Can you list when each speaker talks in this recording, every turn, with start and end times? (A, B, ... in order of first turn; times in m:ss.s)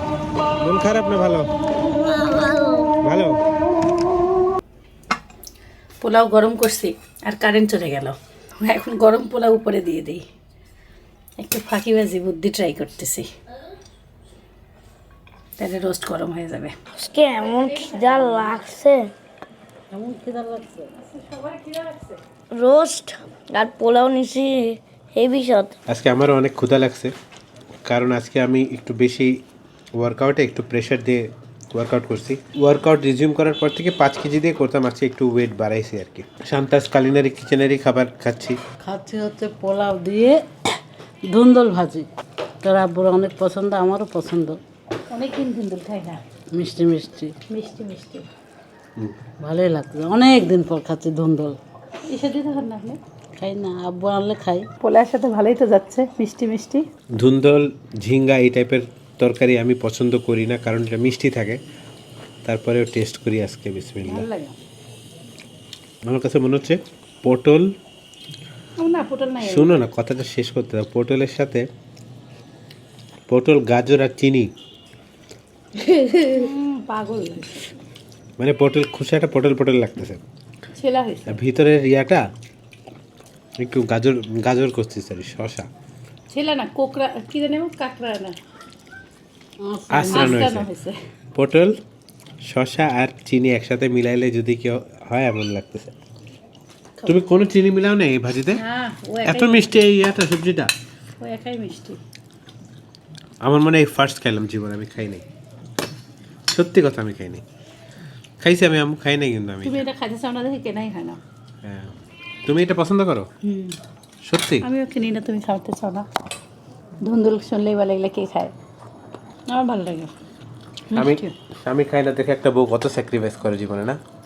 0:00.6-0:01.5 A
0:01.8-0:03.0 B
0:03.0-0:03.4 A
0:06.0-0:10.2 C
0:11.4-0:13.3 C
0:15.6-0:16.7 C
0:17.0-0:19.1 B
0:17.7-0:18.6 C
0:19.9-0:20.9 D
0:20.9-0:22.2 C
0:22.5-0:25.8 B
0:25.9-0:27.1 A
0:27.8-0:29.4 A
0:30.0-0:38.6 A
0:38.8-0:40.4 D
0:41.3-0:42.1 D
0:42.6-0:44.6 D
0:45.1-0:46.2 C
0:46.5-0:47.4 D
0:47.5-0:48.3 C
0:49.4-0:51.6 D
0:52.1-0:53.0 C
0:53.4-0:54.7 D
0:54.8-0:56.8 C
0:57.1-1:01.6 A
1:02.4-1:04.3 A
1:04.0-1:04.5 C
1:06.0-1:07.7 A
1:08.8-1:09.7 C
1:09.4-1:11.7 A
1:13.3-1:14.5 A
1:16.3-1:17.7 C
1:18.4-1:20.2 A
1:20.8-1:21.4 C
1:21.3-1:22.2 A
1:23.6-1:25.7 A
1:26.3-1:28.4 C
1:29.6-1:30.4 D
1:29.9-1:30.7 A
1:30.0-1:31.0 C
1:31.3-1:31.8 A
1:32.4-1:35.9 A
1:37.0-1:38.6 A
1:38.5-1:39.8 C
1:39.2-1:40.7 A
1:41.2-1:42.0 C
1:43.4-1:45.2 A
1:46.5-1:47.4 A
1:48.4-1:49.8 A
1:49.6-1:51.2 C
1:51.6-1:51.9 A
1:52.4-1:53.3 A
1:53.4-1:53.8 C
1:54.2-1:54.6 A
1:54.6-1:56.1 C
1:57.0-1:58.5 C
1:59.5-2:00.1 C
2:00.9-2:01.3 C
2:00.9-2:04.0 A